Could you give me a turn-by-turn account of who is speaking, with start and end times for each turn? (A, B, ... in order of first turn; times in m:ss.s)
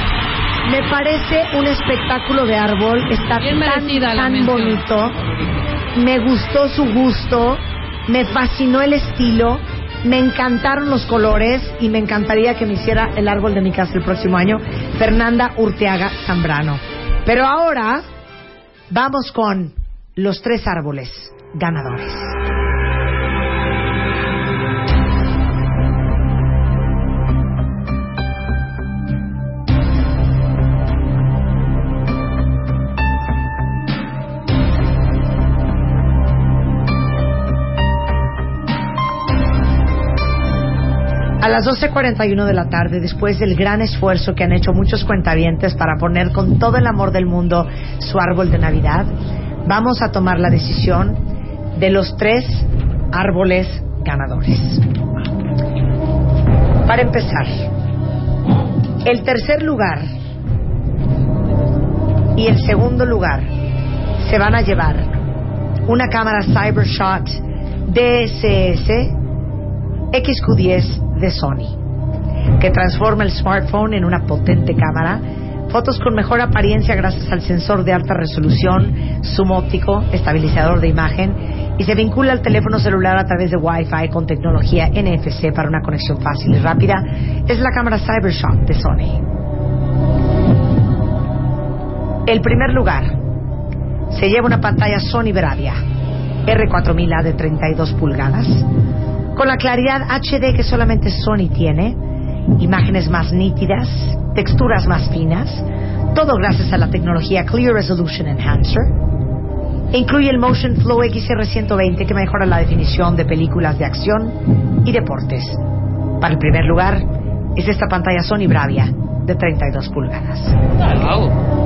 0:00.6-0:05.2 A
0:06.0-0:18.0 A
0:18.9-0:22.4 A
0:41.4-0:49.1 A
0:49.7-0:51.2 A
0:51.8-0:54.8 A
0:56.9-0:57.5 A
0:59.0-1:00.1 A
1:02.4-1:03.5 A
1:04.2-1:05.2 A
1:05.9-1:09.1 A
1:10.1-1:11.8 A
1:12.6-1:29.2 A
1:32.3-1:33.2 A
1:34.1-1:35.8 A
1:36.5-1:38.7 A
1:39.4-1:42.0 A
1:42.6-1:48.9 A
1:49.9-1:55.6 A
1:56.2-2:00.6 A